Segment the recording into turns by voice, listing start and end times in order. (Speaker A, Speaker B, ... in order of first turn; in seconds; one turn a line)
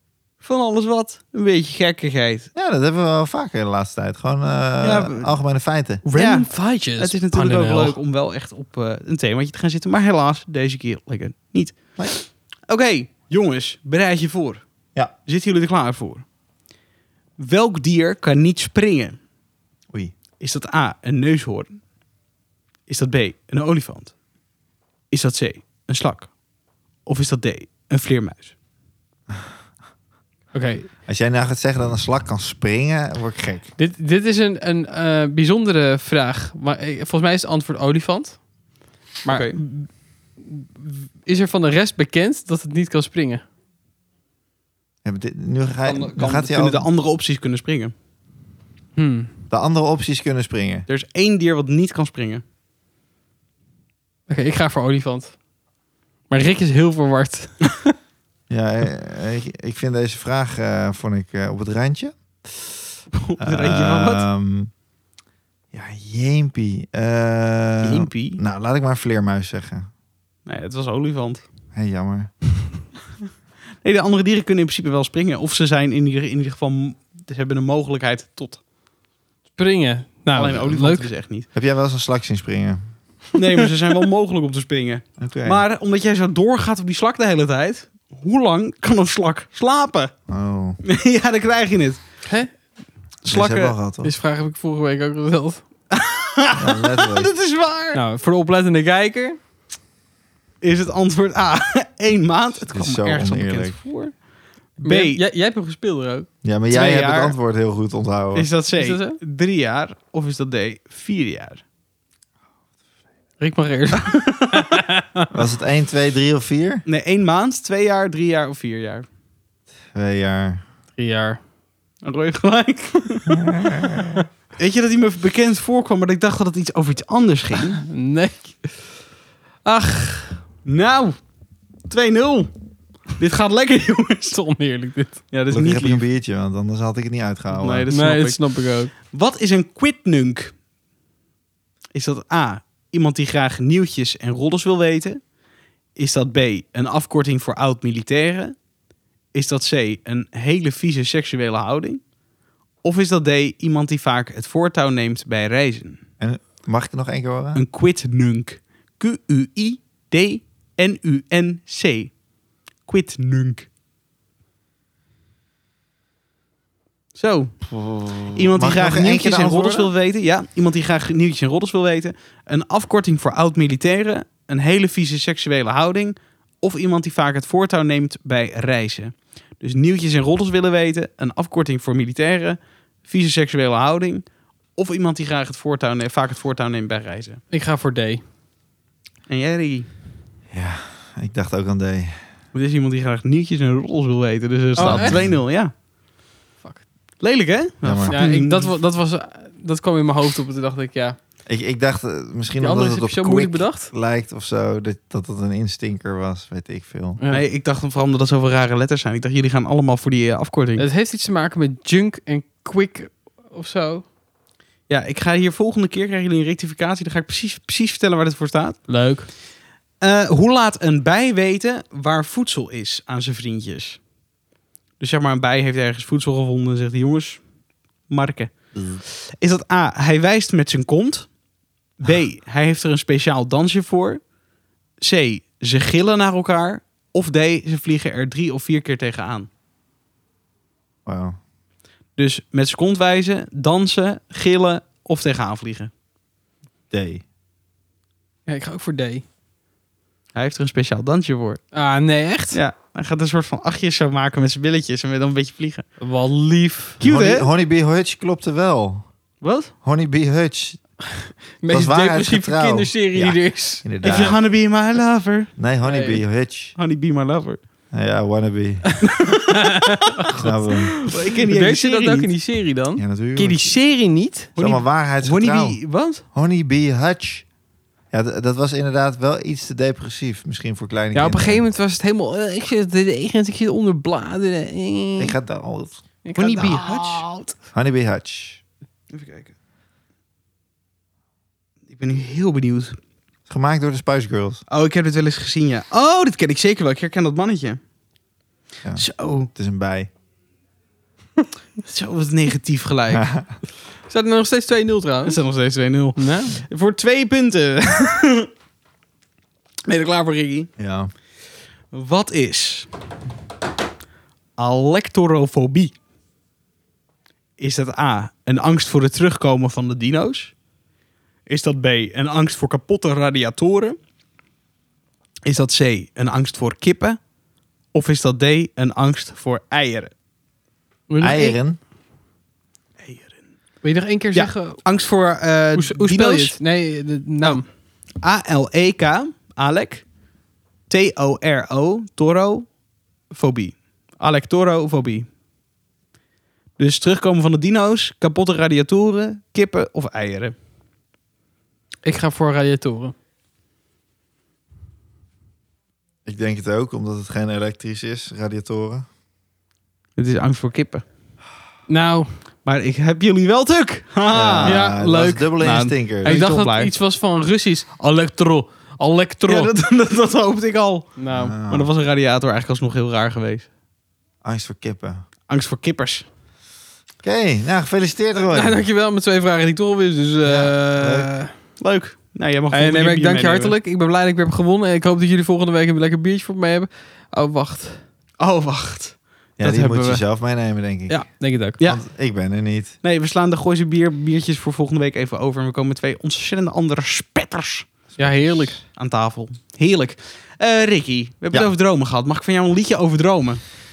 Speaker A: 0.4-2.5
Speaker B: 2.5-6.0
Speaker A: 4.8-5.3
Speaker C: 6.0-8.0
Speaker A: 6.1-14.7
Speaker A: 15.2-16.2
Speaker A: 17.4-19.2
Speaker A: 20.4-21.8
Speaker A: 22.9-24.1
Speaker A: 25.1-26.3
Speaker A: 27.1-28.5
Speaker C: 30.5-30.9
Speaker B: 31.1-33.7
Speaker C: 33.8-38.5
Speaker C: 39.2-43.4
Speaker A: 39.3-39.6
Speaker B: 45.0-46.9
Speaker A: 45.8-47.9
Speaker C: 49.0-49.3
Speaker B: 49.5-50.9
Speaker A: 50.9-52.4
Speaker C: 54.3-55.4
Speaker C: 56.3-57.9
Speaker B: 58.5-62.7
Speaker A: 63.1-64.2
Speaker B: 63.4-64.7
Speaker B: 65.7-69.9
Speaker A: 67.8-68.4
Speaker A: 70.5-71.4
Speaker B: 71.7-72.3
Speaker A: 73.8-78.6
Speaker C: 79.6-81.1
Speaker A: 80.3-81.5
Speaker B: 81.5-82.9
Speaker A: 83.3-90.1
Speaker B: 85.2-85.6
Speaker B: 90.3-90.8
Speaker A: 90.8-92.0
Speaker A: 93.2-93.8
Speaker B: 93.3-94.1
Speaker C: 94.0-95.6
Speaker A: 95.9-98.0
Speaker B: 96.6-97.3
Speaker C: 97.9-99.4
Speaker A: 100.6-104.2
Speaker B: 102.7-103.8
Speaker A: 104.8-105.2
Speaker C: 104.8-106.3
Speaker B: 106.4-108.5
Speaker A: 106.7-107.3
Speaker A: 108.3-111.6
Speaker C: 108.8-109.2
Speaker C: 113.4-115.3
Speaker A: 114.0-114.6
Speaker B: 115.3-116.8
Speaker A: 116.9-119.1
Speaker B: 119.9-120.6
Speaker C: 121.0-121.4
Speaker A: 122.0-123.3
Speaker B: 123.3-124.2
Speaker A: 124.6-127.8
Speaker C: 127.8-128.9
Speaker C: 129.7-130.4
Speaker A: 130.7-131.2
Speaker A: 131.9-132.5
Speaker A: 133.1-134.4
Speaker C: 134.3-135.2
Speaker A: 135.3-136.0
Speaker B: 135.5-137.9
Speaker A: 137.5-140.5
Speaker C: 137.9-138.9
Speaker A: 141.9-145.3
Speaker A: 145.9-148.6
Speaker A: 149.3-152.0
Speaker A: 152.8-156.0
Speaker B: 156.2-157.6
Speaker A: 157.6-162.2
Speaker A: 162.9-163.7
Speaker A: 167.2-167.7
Speaker B: 167.7-169.9
Speaker A: 168.3-187.4
Speaker C: 187.5-188.2
Speaker A: 189.3-189.9
Speaker B: 190.5-192.2
Speaker A: 192.5-195.7
Speaker C: 194.8-195.3
Speaker B: 194.8-195.4
Speaker A: 197.2-198.7
Speaker B: 197.8-198.2
Speaker C: 198.1-201.2
Speaker B: 201.5-207.2
Speaker C: 202.6-203.9
Speaker C: 207.2-207.4
Speaker A: 207.3-210.9
Speaker C: 210.8-214.1
Speaker A: 214.9-218.9
Speaker C: 218.9-219.3
Speaker A: 220.0-224.0
Speaker A: 225.0-227.4
Speaker A: 228.1-231.3
Speaker B: 228.7-229.0
Speaker A: 232.0-234.2
Speaker A: 235.0-239.5
Speaker B: 241.1-241.4
Speaker A: 242.2-245.9
Speaker B: 246.9-247.2
Speaker C: 248.5-249.2
Speaker A: 250.3-251.6
Speaker C: 251.7-252.6
Speaker A: 252.5-255.9
Speaker C: 256.0-257.0
Speaker A: 257.0-257.5
Speaker B: 257.0-259.1
Speaker A: 259.4-259.7
Speaker B: 259.8-260.8
Speaker C: 261.6-264.3
Speaker B: 261.7-264.4
Speaker A: 264.0-265.5
Speaker B: 265.6-266.8
Speaker C: 265.8-266.2
Speaker A: 266.8-267.6
Speaker B: 267.9-269.0
Speaker A: 269.0-269.8
Speaker C: 269.0-274.5
Speaker B: 270.3-270.9
Speaker A: 271.0-272.3
Speaker B: 273.0-273.8
Speaker A: 274.6-276.2
Speaker B: 274.6-277.5
Speaker B: 278.1-281.6
Speaker C: 281.1-285.4
Speaker B: 285.2-286.0
Speaker C: 286.2-287.3
Speaker A: 286.4-287.6
Speaker B: 287.7-288.6
Speaker A: 289.1-289.5
Speaker A: 291.9-293.0
Speaker B: 293.5-294.6
Speaker A: 294.7-297.8
Speaker B: 298.8-300.1
Speaker A: 298.9-299.5
Speaker A: 301.8-303.3
Speaker B: 303.1-303.5
Speaker C: 304.1-305.4
Speaker A: 305.2-308.5
Speaker C: 306.2-306.6
Speaker A: 309.9-310.7
Speaker B: 310.8-311.1
Speaker A: 311.9-312.9
Speaker A: 314.6-315.9
Speaker A: 317.6-320.5
Speaker A: 321.5-324.0
Speaker A: 325.5-327.2
Speaker A: 327.9-330.1
Speaker C: 331.1-331.6
Speaker B: 331.2-331.8
Speaker A: 333.0-333.5
Speaker C: 333.8-335.0
Speaker A: 334.3-336.6
Speaker C: 335.8-337.7
Speaker A: 338.2-340.1
Speaker A: 340.9-342.7
Speaker A: 343.3-345.3
Speaker A: 346.8-350.5
Speaker C: 352.1-353.1
Speaker B: 356.2-359.1
Speaker A: 360.2-361.0
Speaker C: 361.9-362.4
Speaker A: 362.6-364.8
Speaker B: 364.3-366.4
Speaker C: 364.6-369.7
Speaker A: 365.6-366.9
Speaker A: 369.5-373.7
Speaker C: 371.2-371.6
Speaker B: 371.3-371.9
Speaker B: 374.4-375.2
Speaker A: 375.5-376.3
Speaker B: 377.2-378.8
Speaker C: 378.4-381.5
Speaker B: 380.4-381.3
Speaker A: 381.8-383.8
Speaker C: 382.7-388.0
Speaker A: 388.4-390.2
Speaker B: 389.6-392.9
Speaker C: 391.1-391.8
Speaker A: 393.0-397.9
Speaker B: 398.1-398.8
Speaker C: 398.2-398.8
Speaker A: 398.9-403.6